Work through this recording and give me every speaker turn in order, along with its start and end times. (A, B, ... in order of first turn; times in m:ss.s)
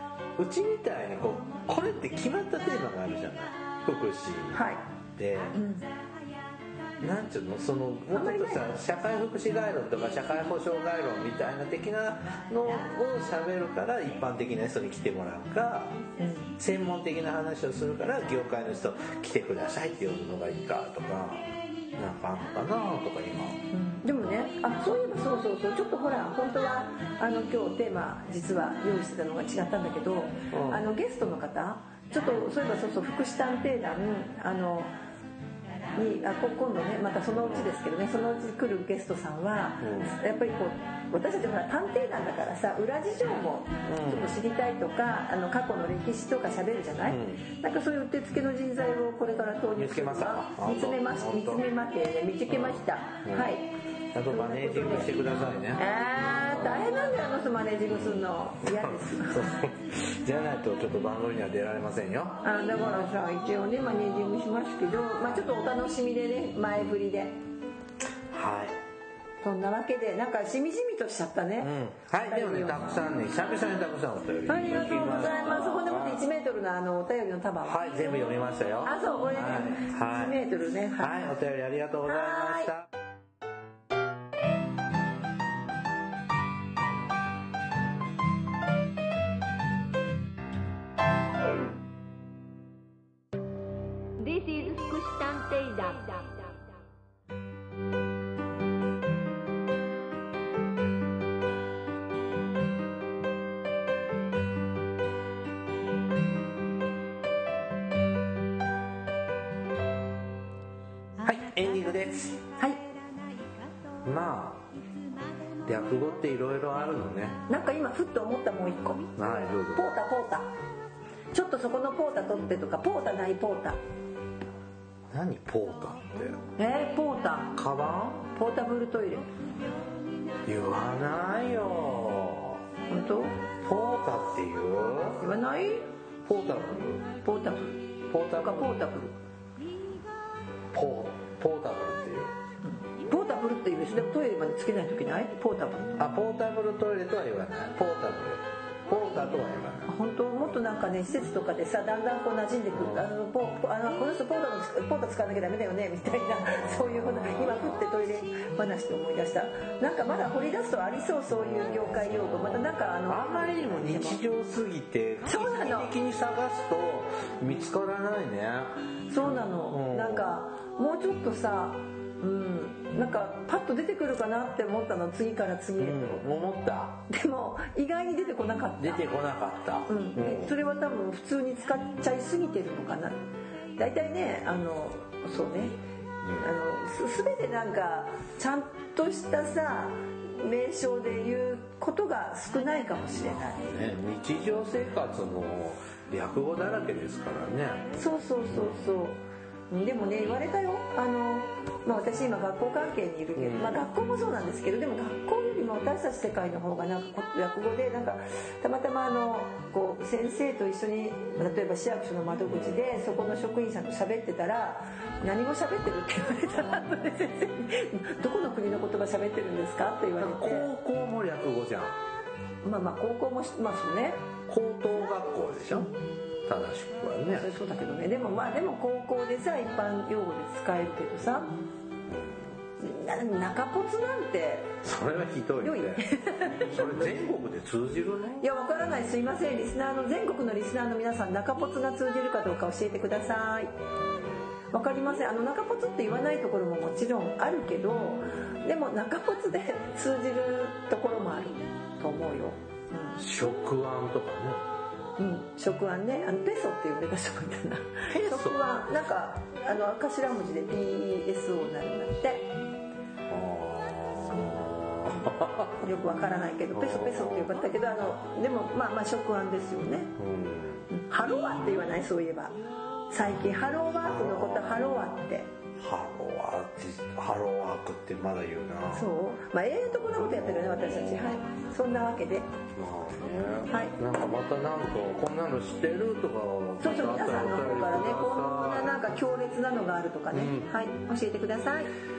0:00.4-0:05.6 A
0:04.5-0:04.8 B
0:05.5-0:05.9 B
0:07.0-0:16.0 A
0:08.1-0:08.7 B
0:16.2-0:16.5 B
0:16.6-0:23.6 A
0:23.7-0:34.9 B
0:30.5-0:30.8 A
0:36.0-0:53.7 B
0:37.4-0:37.7 A
0:39.8-0:40.2 A
0:43.8-0:44.4 A
0:47.1-0:47.4 A
0:49.8-0:51.6 A
0:52.5-0:53.6 A
0:54.1-0:56.8 A
0:54.3-0:55.1 B
0:55.8-0:59.5 B
0:57.9-1:03.1 A
1:02.4-1:07.4 B
1:08.3-1:08.8 A
1:09.4-1:13.1 B
1:11.6-1:16.2 A
1:14.5-1:21.4 B
1:17.6-1:20.4 A
1:21.0-1:22.9 A
1:22.1-1:22.7 B
1:34.2-1:36.6 C
1:51.2-1:52.4 A
1:54.0-1:54.7 A
1:55.6-1:57.4 A
1:57.5-2:00.5 B
1:59.2-1:59.9 A
2:01.3-2:03.8 B
2:05.1-2:06.4 A
2:06.6-2:07.6 B
2:07.6-2:08.3 A
2:08.3-2:09.3 B
2:10.5-2:12.6 A
2:12.9-2:13.4 B
2:13.6-2:15.2 A
2:15.2-2:15.9 B
2:16.2-2:17.1 A
2:17.2-2:17.9 B
2:18.1-2:18.7 A
2:18.4-2:19.2 B
2:20.7-2:22.3 A
2:22.6-2:26.1 B
2:26.0-2:29.9 A
2:29.9-2:44.2 B
2:32.7-2:33.1 A
2:36.5-2:37.8 A
2:41.3-2:50.3 A
2:45.3-2:45.9 B
2:49.1-2:56.2 B
2:55.8-2:57.0 A
2:57.1-2:59.1 B
2:58.8-3:00.6 A
2:59.9-3:05.8 B
3:06.2-3:06.5 A
3:06.4-3:13.7 B
3:13.2-3:17.9 A
3:17.9-3:40.7 B
3:18.5-3:18.8 A
3:23.4-3:23.8 A
3:32.5-3:32.8 A
3:40.2-3:42.0 A
3:42.6-3:44.2 B
3:44.5-3:45.9 A
3:46.5-3:47.5 A
3:47.3-3:51.6 B
3:52.1-3:52.5 A
3:52.8-3:54.8 B
3:54.8-3:56.0 A
3:55.6-3:57.0 B
3:56.6-3:58.4 A
3:58.4-4:03.7 B
4:04.7-4:13.2 B
4:13.2-4:14.6 A
4:15.2-4:22.5 B
4:18.1-4:18.6 A
4:23.3-4:25.8 A
4:25.8-4:30.2 B
4:26.7-4:27.6 A
4:30.2-4:30.9 A
4:30.9-4:32.6 B
4:33.1-4:35.5 B
4:34.0-4:35.0 A
4:35.8-4:39.1 A
4:38.9-4:42.5 B
4:40.3-4:41.3 A
4:42.8-4:49.0 A
4:43.7-4:43.9 B
4:46.8-4:51.9 B
4:50.3-4:50.7 A